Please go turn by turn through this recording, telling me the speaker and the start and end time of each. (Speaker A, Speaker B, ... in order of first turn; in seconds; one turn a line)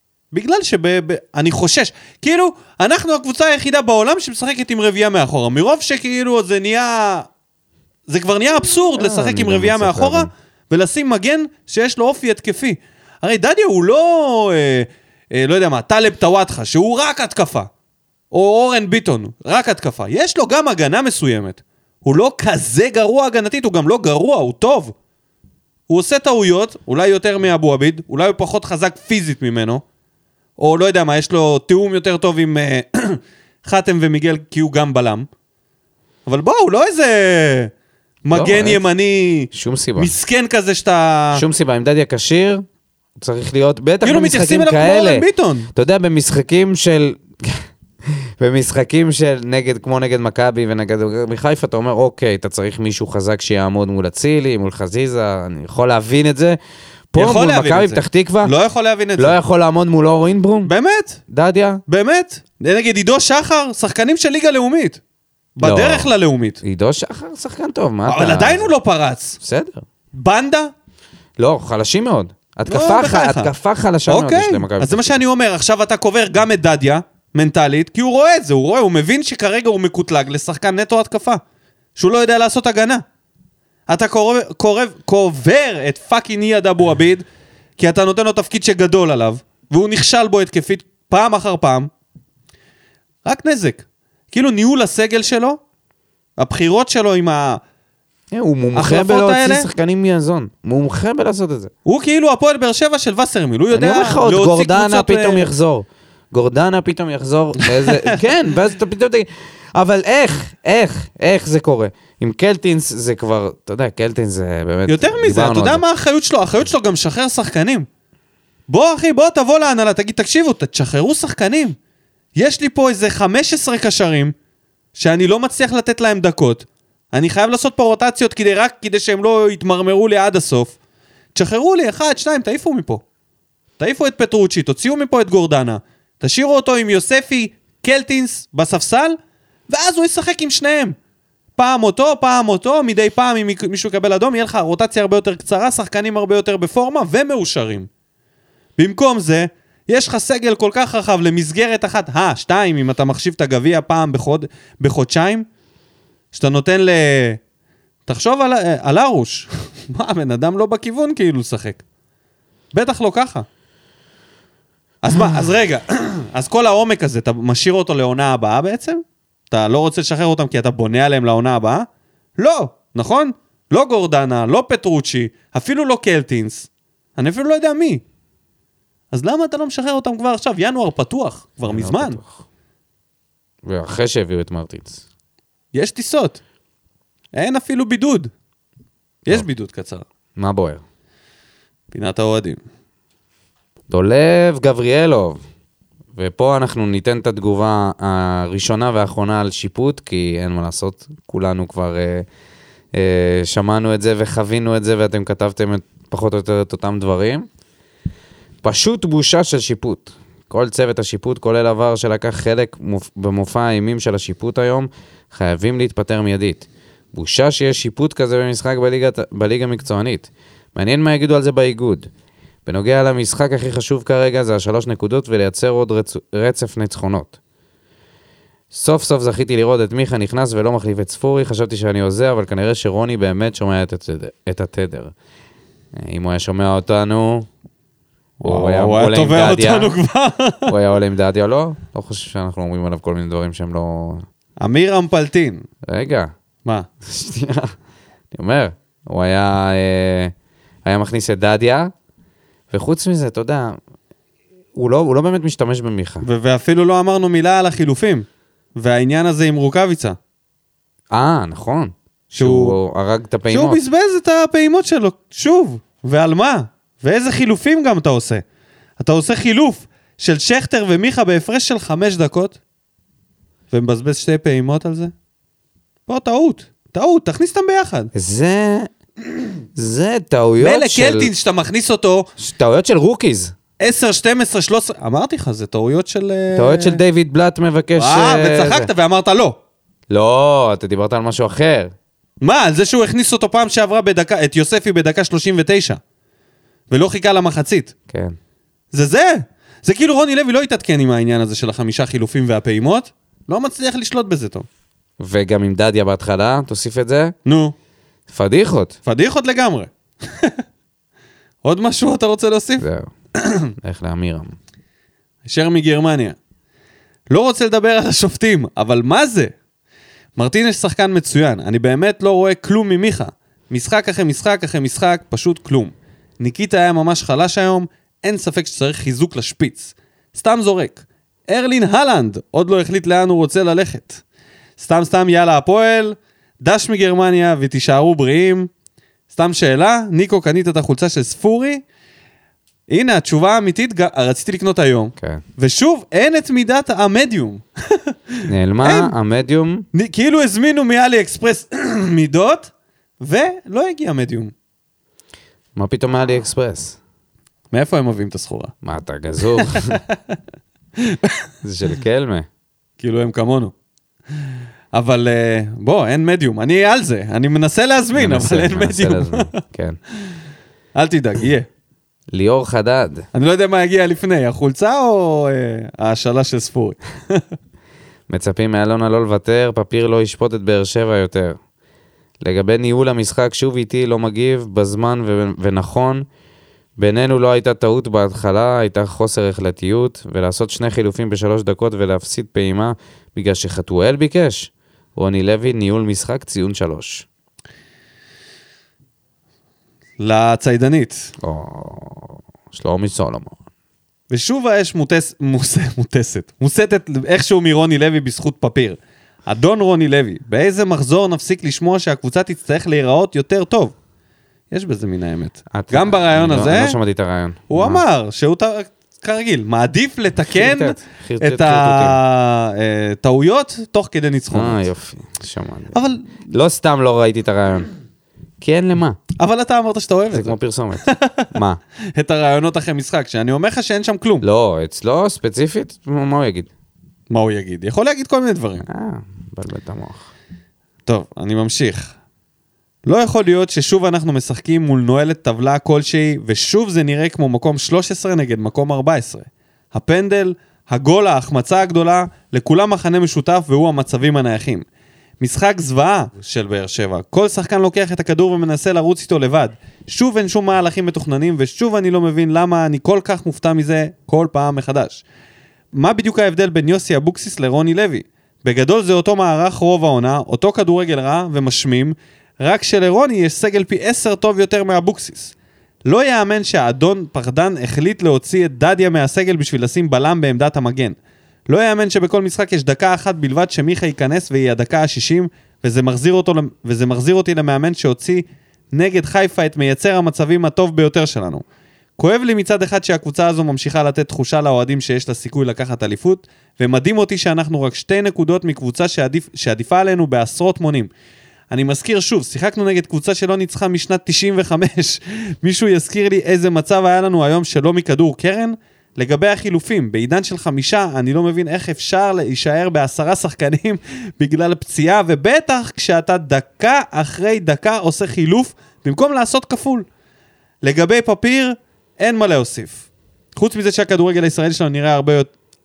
Speaker A: 0.3-7.3
Speaker A: 8.1-17.7
Speaker B: 9.0-10.3
Speaker A: 18.3-24.9
Speaker A: 25.9-29.8
Speaker A: 30.6-35.3
Speaker A: 36.2-37.7
Speaker A: 38.2-41.4
Speaker B: 38.3-38.8
Speaker B: 39.5-40.1
Speaker B: 41.3-42.6
Speaker B: 43.2-47.7
Speaker A: 44.0-45.7
Speaker B: 48.4-56.6
Speaker B: 57.1-58.5
Speaker A: 57.1-59.4
Speaker B: 59.2-60.7
Speaker A: 60.6-61.2
Speaker B: 61.3-61.8
Speaker A: 61.9-65.0
Speaker A: 65.6-66.6
Speaker B: 65.6-66.1
Speaker B: 66.6-68.7
Speaker A: 68.1-69.4
Speaker B: 69.4-69.8
Speaker A: 70.2-70.7
Speaker B: 71.4-75.2
Speaker A: 72.7-73.5
Speaker A: 74.1-81.4
Speaker A: 82.0-83.0
Speaker A: 83.9-87.2
Speaker A: 87.8-91.9
Speaker A: 93.2-95.6
Speaker A: 96.4-97.6
Speaker B: 98.3-101.7
Speaker A: 98.7-99.7
Speaker A: 101.8-105.5
Speaker B: 103.7-115.8
Speaker A: 107.6-108.2
Speaker A: 114.9-117.9
Speaker A: 118.7-121.8
Speaker A: 122.3-124.3
Speaker A: 124.9-130.8
Speaker A: 131.3-133.0
Speaker A: 133.8-139.2
Speaker A: 139.7-140.9
Speaker A: 141.6-147.9
Speaker A: 148.8-155.5
Speaker A: 156.3-157.4
Speaker A: 158.1-161.8
Speaker A: 162.7-163.4
Speaker A: 165.0-171.9
Speaker A: 172.4-178.0
Speaker A: 179.1-182.2
Speaker B: 181.6-182.4
Speaker B: 183.6-185.0
Speaker A: 185.7-186.4
Speaker A: 187.3-188.3
Speaker A: 189.2-190.0
Speaker B: 190.3-190.8
Speaker A: 191.9-192.6
Speaker B: 193.9-195.4
Speaker B: 196.1-202.2
Speaker B: 202.9-207.5
Speaker B: 208.6-222.1
Speaker B: 222.7-227.4
Speaker B: 228.7-235.1
Speaker B: 235.9-237.5
Speaker A: 238.4-240.7
Speaker B: 238.4-240.0
Speaker B: 240.7-244.2
Speaker A: 244.6-245.6
Speaker B: 245.8-246.3
Speaker B: 247.0-247.7
Speaker B: 248.3-250.3
Speaker B: 250.8-251.9
Speaker B: 252.7-253.8
Speaker B: 254.7-256.2
Speaker A: 256.2-260.2
Speaker B: 261.1-263.8
Speaker A: 262.3-262.8
Speaker A: 263.5-268.4
Speaker A: 269.0-272.6
Speaker A: 273.7-275.1
Speaker A: 276.1-278.1
Speaker B: 278.1-278.9
Speaker B: 279.7-281.3
Speaker A: 280.6-282.3
Speaker B: 282.4-283.5
Speaker A: 283.8-287.0
Speaker B: 286.6-288.9
Speaker A: 287.9-289.6
Speaker B: 290.1-291.9
Speaker A: 292.4-296.0
Speaker A: 296.9-297.9
Speaker B: 298.1-298.4
Speaker A: 298.9-304.7
Speaker B: 305.2-307.3
Speaker A: 307.4-307.7
Speaker B: 308.3-308.9
Speaker A: 309.1-310.6
Speaker A: 311.6-312.9
Speaker B: 312.8-313.1
Speaker A: 313.4-313.7
Speaker B: 313.8-314.6
Speaker A: 315.4-316.4
Speaker A: 317.3-319.5
Speaker A: 320.4-334.2
Speaker A: 334.8-338.7
Speaker A: 339.3-341.8
Speaker A: 342.9-349.1
Speaker B: 348.5-349.9
Speaker A: 349.9-354.5
Speaker B: 355.8-357.0
Speaker A: 357.7-358.7
Speaker B: 358.8-360.0
Speaker A: 359.6-360.1
Speaker A: 361.0-361.4
Speaker B: 361.6-362.5
Speaker A: 363.0-363.7
Speaker A: 364.9-369.6
Speaker B: 368.1-370.0
Speaker A: 370.9-371.7
Speaker B: 372.3-373.3
Speaker A: 373.3-377.4
Speaker B: 378.3-381.6
Speaker B: 382.4-386.2
Speaker B: 387.0-397.2
Speaker A: 400.2-401.3
Speaker B: 401.4-403.6
Speaker A: 404.3-413.9
Speaker A: 414.7-417.0
Speaker B: 415.7-418.0
Speaker A: 417.7-424.9
Speaker B: 420.5-422.2
Speaker B: 424.5-427.9
Speaker A: 425.9-426.3
Speaker B: 428.6-429.2
Speaker A: 429.4-431.5
Speaker B: 430.3-431.8
Speaker A: 432.1-434.4
Speaker B: 434.4-436.7
Speaker A: 437.3-438.9
Speaker B: 438.9-440.3
Speaker A: 441.1-442.1
Speaker A: 443.1-454.8
Speaker A: 455.4-465.2
Speaker A: 465.9-475.5
Speaker A: 476.0-481.2
Speaker A: 481.7-491.6
Speaker A: 492.2-501.1
Speaker A: 501.7-520.0
Speaker A: 520.8-525.5